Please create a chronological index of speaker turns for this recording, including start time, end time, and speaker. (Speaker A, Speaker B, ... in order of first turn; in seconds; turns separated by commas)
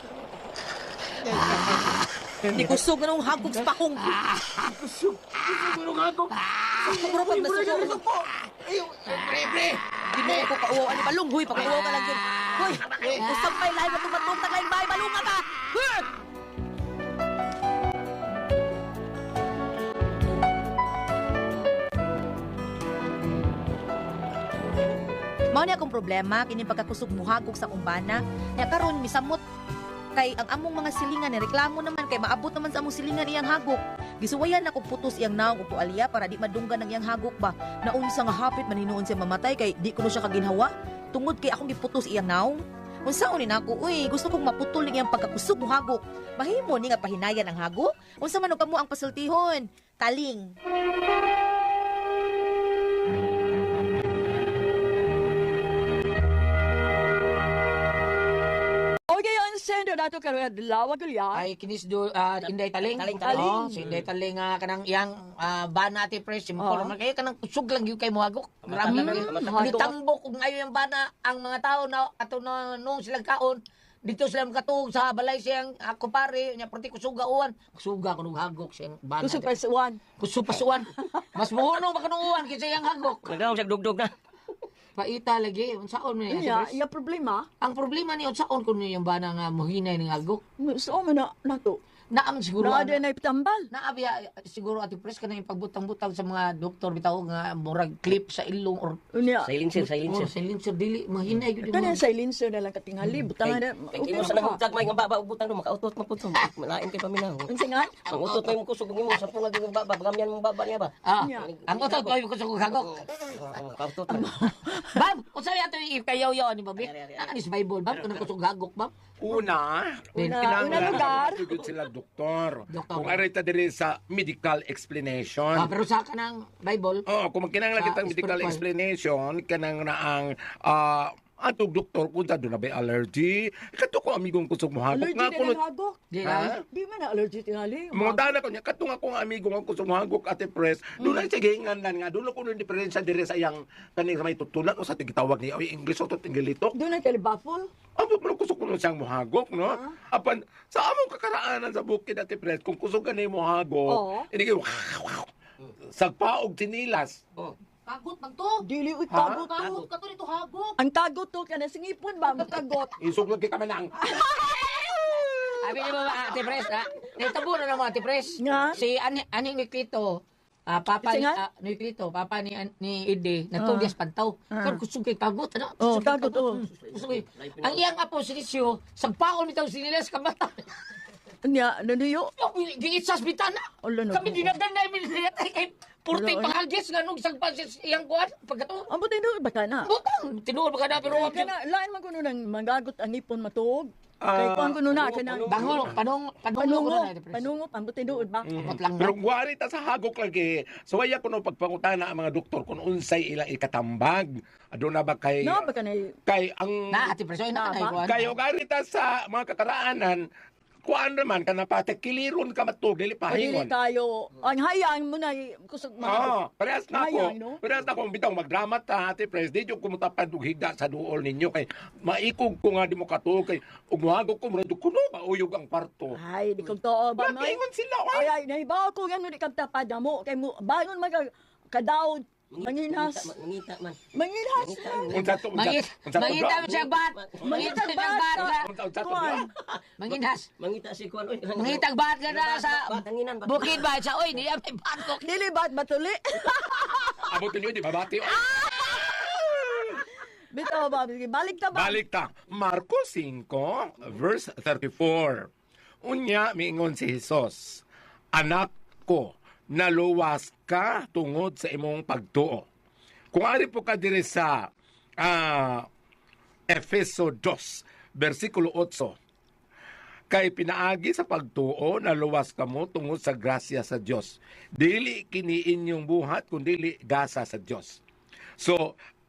Speaker A: 1.2-2.8, Speaker B: 1.4-2.1, Speaker C: 2.5-4.2, Speaker B: 4.0-4.7, Speaker A: 4.6-6.4, Speaker B: 6.3-7.1, Speaker C: 6.9-8.0, Speaker A: 7.0-10.6, Speaker C: 10.1-16.1, Speaker B: 11.5-13.7, Speaker A: 12.9-13.3, Speaker C: 25.5-29.4, Speaker C: 30.2-50.5, Speaker D: 59.1-61.5, Speaker B: 61.3-79.5, Speaker E: 62.4-64.1, Speaker D: 63.2-63.8, Speaker D: 66.6-66.9, Speaker E: 68.7-69.9, Speaker D: 68.8-69.9, Speaker D: 79.2-80.0, Speaker B: 80.2-83.4, Speaker E: 83.2-84.1, Speaker B: 85.0-86.8, Speaker D: 86.3-87.5, Speaker B: 87.6-90.4, Speaker D: 90.6-91.8, Speaker B: 92.1-93.0, Speaker D: 92.6-93.7, Speaker B: 93.7-99.0, Speaker D: 99.1-99.5, Speaker E: 99.5-100.3, Speaker B: 99.8-102.0, Speaker D: 101.7-104.6, Speaker E: 103.4-107.5, Speaker D: 107.5-107.9, Speaker E: 108.1-112.2, Speaker B: 108.3-108.5, Speaker B: 111.0-113.0, Speaker D: 111.2-111.5, Speaker E: 112.7-114.5, Speaker D: 114.1-114.9, Speaker B: 114.8-118.9, Speaker E: 116.8-117.3, Speaker E: 117.9-118.3, Speaker F: 119.2-125.7, Speaker B: 120.2-121.2, Speaker D: 120.2-121.5, Speaker B: 122.7-123.2, Speaker B: 125.5-127.0, Speaker F: 127.1-135.6, Speaker B: 127.8-128.6, Speaker D: 134.9-136.1, Speaker B: 136.1-136.5, Speaker F: 136.2-136.6, Speaker D: 136.7-138.3, Speaker F: 137.9-146.8, Speaker D: 141.0-141.3, Speaker D: 146.7-147.7, Speaker F: 148.0-155.3, Speaker D: 153.9-154.3, Speaker F: 155.8-157.2, Speaker C: 157.9-158.6, Speaker D: 158.6-159.8, Speaker F: 159.1-159.5, Speaker C: 159.6-160.8, Speaker E: 159.6-159.9, Speaker D: 160.8-163.0, Speaker F: 163.0-165.2, Speaker B: 165.6-180.7, Speaker D: 168.4-168.8, Speaker D: 171.0-171.4, Speaker D: 173.6-173.9, Speaker D: 174.5-174.8, Speaker D: 175.8-176.7, Speaker E: 176.8-177.9, Speaker D: 181.4-182.3, Speaker B: 182.4-188.9, Speaker D: 183.8-184.5, Speaker D: 186.1-186.6, Speaker D: 188.9-189.9, Speaker B: 189.8-191.5, Speaker D: 191.1-195.7, Speaker F: 194.2-195.2, Speaker E: 194.9-196.0, Speaker B: 195.5-197.5, Speaker D: 196.6-198.5, Speaker F: 198.4-205.7, Speaker B: 198.5-199.2, Speaker D: 205.4-206.2, Speaker F: 206.3-207.1, Speaker B: 206.9-208.3, Speaker D: 207.5-208.0, Speaker F: 207.9-210.3, Speaker F: 210.8-213.7, Speaker D: 213.3-216.4, Speaker F: 216.0-226.2, Speaker D: 216.9-217.6, Speaker D: 226.2-233.3, Speaker F: 227.2-228.3, Speaker E: 232.5-234.0, Speaker D: 234.2-235.2, Speaker E: 234.6-235.4, Speaker F: 235.1-236.8, Speaker B: 235.5-238.7, Speaker E: 236.2-237.5, Speaker D: 237.4-239.5, Speaker F: 238.3-239.5, Speaker E: 239.7-244.4, Speaker B: 240.0-240.5, Speaker B: 241.6-245.2, Speaker D: 245.1-247.2, Speaker F: 247.3-250.0, Speaker D: 250.5-252.0, Speaker F: 251.7-255.5, Speaker F: 256.0-257.8, Speaker F: 258.4-262.7, Speaker F: 263.3-264.7, Speaker F: 265.2-265.9, Speaker F: 266.7-269.2, Speaker F: 270.3-278.0, Speaker F: 278.6-278.9